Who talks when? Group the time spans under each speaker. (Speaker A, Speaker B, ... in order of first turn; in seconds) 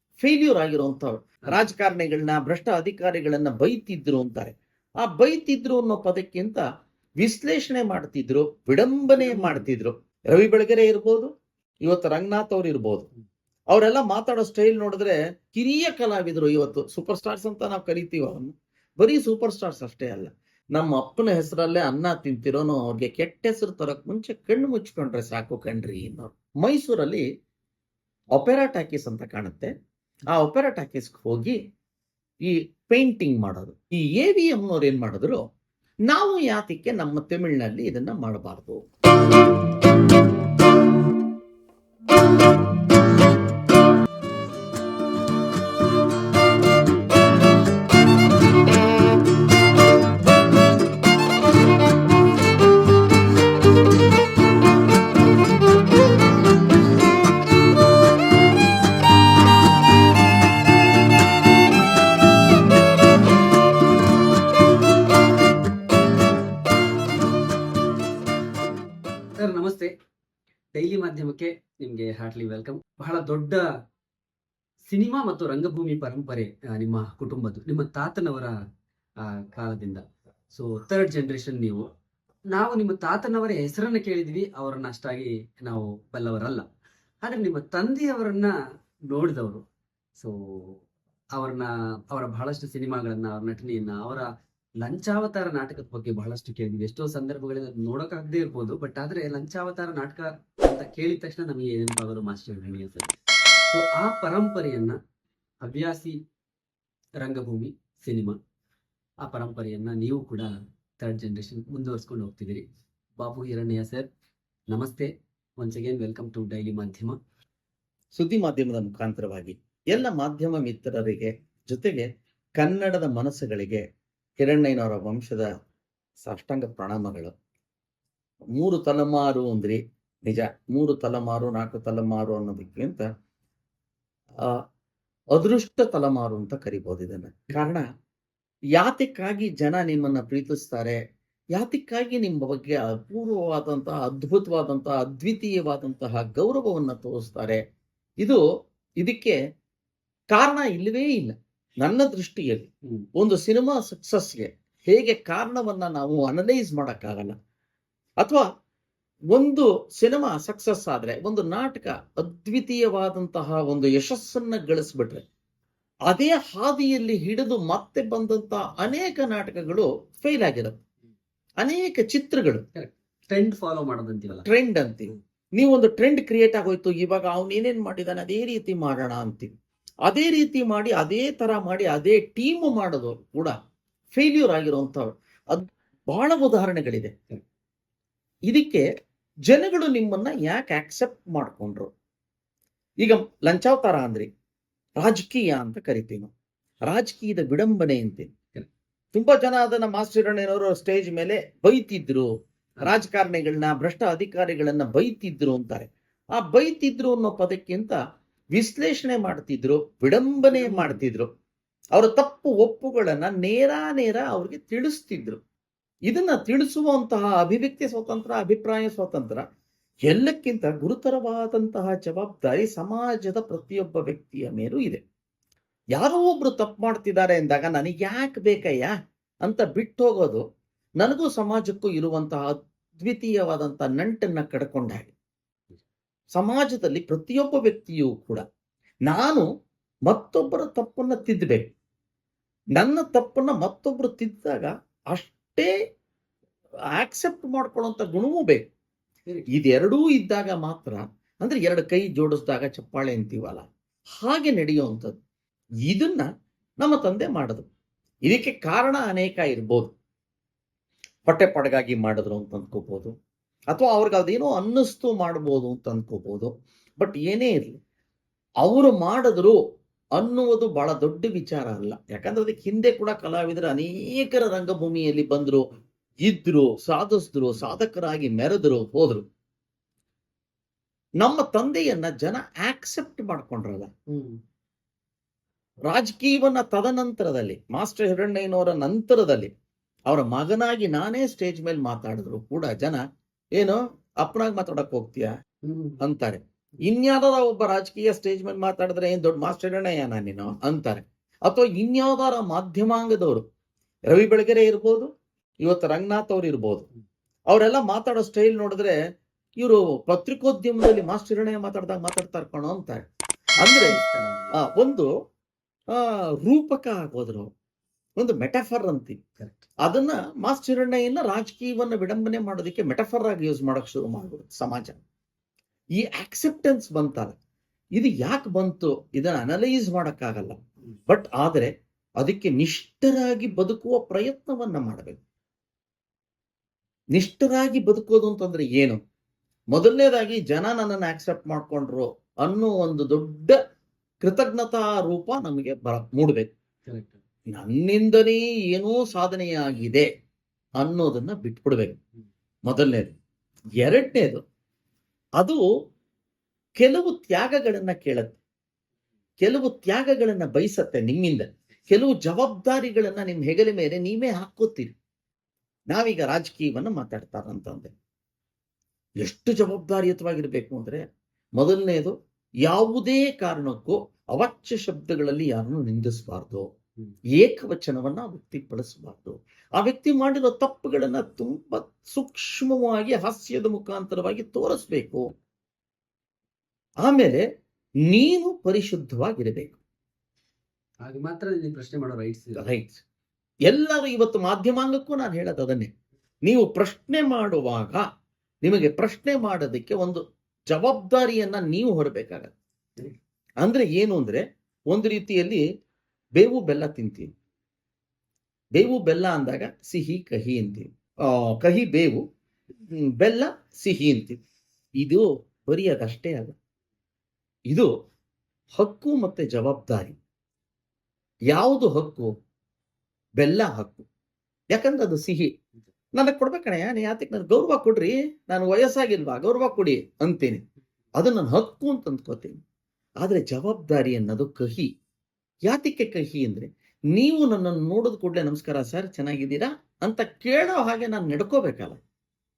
Speaker A: 0.2-6.6, 7.2-11.3, 11.8-13.1, 13.7-27.2, 28.4-29.7, 30.3-31.6, 32.4-35.4, 36.1-38.8, 118.2-122.1, 122.6-123.8, 124.4-125.5, 126.2-127.3, 128.6-133.1, 135.3-137.8, 138.8-141.0, 141.6-147.6, 149.0-149.4, 150.3-157.3, 158.2-158.5, 159.3-165.2, 166.1-170.8, 171.6-172.7, 174.4-179.5, 180.1-183.6, 184.1-187.1, 188.5-188.9, 189.5-191.9, 193.0-194.3, 195.0-196.3, 196.9-198.3, 199.1-202.3, 202.8-208.0, 208.5-211.3, 212.0-215.4, 216.1-219.4, 220.1-225.0, 226.0-228.9, 229.4-230.4, 231.0-235.1, 236.4-238.4, 239.1-239.5, 240.1-241.7, 242.8-245.7, 247.0-248.7, 249.5-253.7, 254.2-255.2, 255.9-256.3, 256.8-257.7, 258.3-259.9, 261.3-263.1, 263.7-267.8, 268.6-269.6, 270.2-275.6, 276.2-279.3, 281.2-283.9, 285.9-289.5, 290.1-293.0, 293.6-295.3, 296.0-303.4, 304.1-305.1, 305.6-306.9, 307.5-308.9, 309.6-313.0, 313.6-314.0, 314.6-315.1, 315.9-317.5, 318.2-319.2, 319.8-325.0, 326.0-327.4, 328.0-335.2, 337.1-339.0, 339.7-343.6, 344.2-346.5, 347.5-350.1, 350.8-352.0, 352.7-353.1, 353.8-354.4, 356.8-358.4, 359.4-364.9, 365.9-367.9, 369.2-371.1, 371.6-372.1, 372.7-376.7, 377.4-385.3, 387.0-387.4, 388.1-389.8, 392.6-393.0, 393.7-395.9, 396.5-398.0, 398.6-402.5, 403.6-405.6, 406.4-407.3, 408.8-412.2, 413.0-414.4, 415.0-416.6, 418.8-420.2, 421.5-422.3, 423.4-424.1, 424.7-425.5, 426.2-430.6, 431.2-432.6, 433.2-434.9, 435.7-442.0
Speaker B: 9.2-9.7, 69.4-69.9, 70.7-73.7, 74.9-78.5, 79.2-81.8, 82.5-86.7, 87.2-88.5, 89.1-89.6, 90.2-90.8, 91.4-94.3, 94.8-103.1, 103.7-105.0, 105.6-106.2, 107.2-108.4, 109.2-112.7, 113.2-114.1, 114.7-115.1, 115.6-117.2, 172.8-174.4, 210.5-211.0, 284.1-284.4, 295.6-296.0, 313.6-314.5, 346.9-347.2, 391.0-392.6